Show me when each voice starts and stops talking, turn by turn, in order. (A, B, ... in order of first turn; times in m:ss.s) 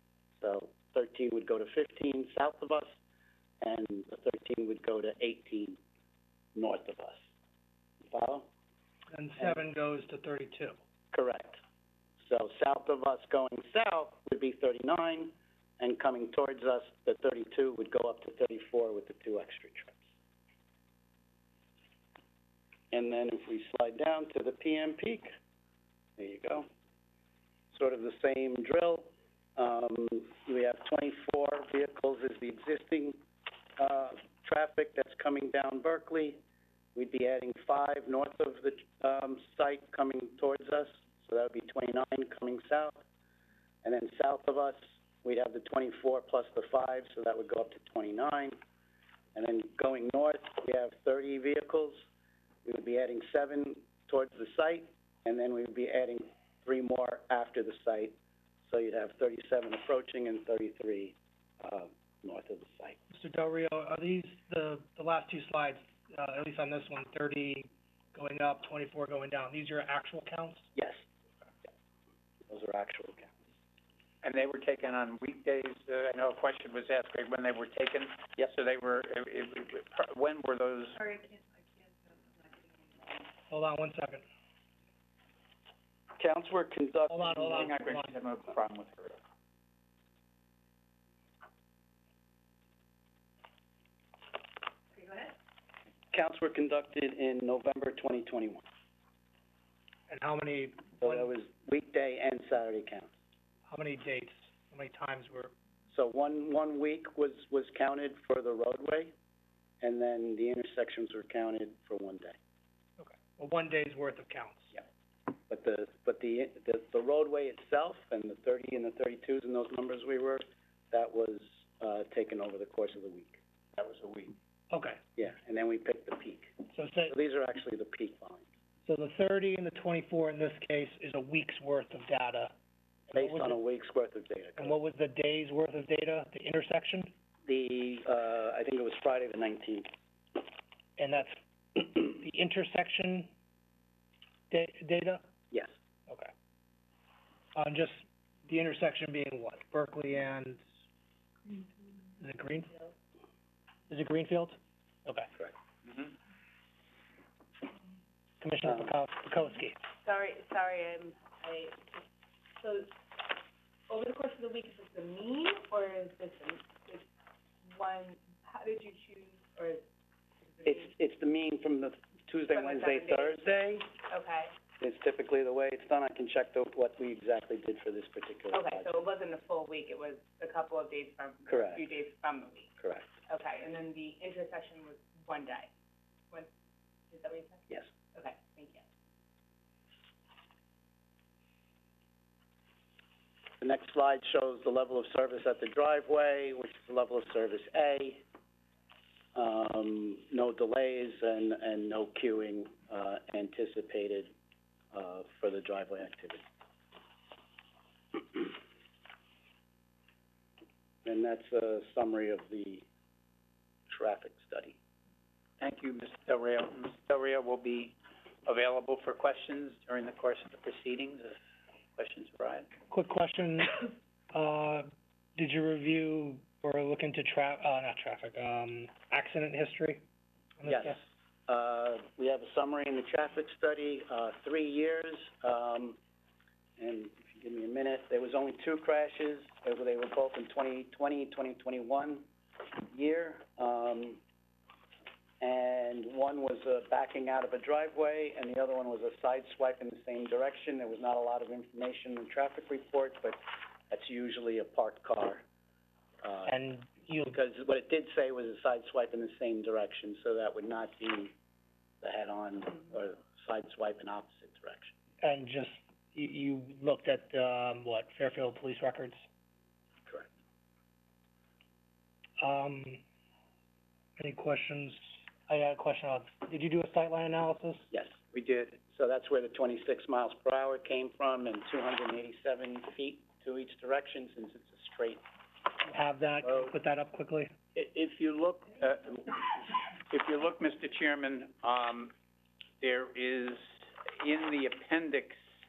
0:00.4-0:02.9 A
0:03.6-0:05.8 A
0:06.6-0:07.2 A
0:08.0-0:08.5 A
0:09.1-0:10.8 B
0:11.1-0:11.6 A
0:12.2-0:20.0 A
0:22.9-0:25.3 A
0:26.2-0:26.7 A
0:27.7-0:33.2 A
0:33.8-0:36.4 A
0:37.0-0:43.0 A
0:43.8-0:48.6 A
0:49.4-0:52.0 A
0:52.6-1:03.0 A
1:03.1-1:10.7 B
1:12.5-1:13.4 A
1:14.2-1:21.0 C
1:21.0-1:23.3 D
1:23.5-1:24.2 B
1:26.2-1:27.7 A
1:27.1-1:28.1 B
1:27.4-1:29.2 C
1:35.0-1:35.3 D
1:36.1-1:38.7 A
1:40.1-1:41.3 B
1:41.0-1:43.1 A
1:43.7-1:45.5 B
1:45.9-1:49.1 A
1:49.8-1:52.4 A
1:53.0-1:54.7 B
1:55.5-2:03.4 A
2:03.8-2:04.3 C
2:04.7-2:05.0 B
2:05.2-2:08.5 A
2:06.7-2:07.1 B
2:08.9-2:12.5 B
2:13.1-2:13.6 B
2:13.2-2:14.8 A
2:14.6-2:17.1 B
2:17.5-2:19.9 A
2:21.0-2:23.3 B
2:24.5-2:25.2 B
2:27.6-2:30.6 B
2:32.2-2:32.8 B
2:33.9-2:35.3 B
2:35.9-2:36.1 C
2:38.4-2:39.8 B
2:40.0-2:42.1 D
2:42.6-2:42.9 D
2:43.9-2:47.1 D
2:47.6-2:49.8 D
2:50.6-2:50.9 D
2:50.7-2:54.0 A
2:52.5-2:53.4 D
2:54.0-2:54.6 D
2:54.8-2:59.0 A
2:58.5-3:02.7 D
3:01.5-3:01.8 A
3:02.8-3:03.1 A
3:03.3-3:05.7 D
3:07.1-3:08.8 D
3:13.6-3:18.2 A
3:19.4-3:24.3 A
3:24.9-3:26.4 A
3:31.0-3:32.8 A
3:33.9-3:34.8 A
3:35.6-3:41.4 C
3:42.0-3:42.7 C
3:42.9-3:50.0 B
3:50.6-3:51.0 B
3:50.7-3:56.0 A
3:56.8-4:04.2 A
4:05.4-4:15.4 A
4:16.2-4:16.6 A
4:16.5-4:17.4 B
4:17.3-4:21.3 A
4:22.0-4:25.0 A
4:25.2-4:29.2 B
4:32.4-4:33.0 B
4:34.2-4:37.9 B
4:37.9-4:45.2 A
4:38.3-4:38.6 C
4:45.9-4:47.5 B
4:47.8-4:52.1 C
4:52.8-4:55.4 C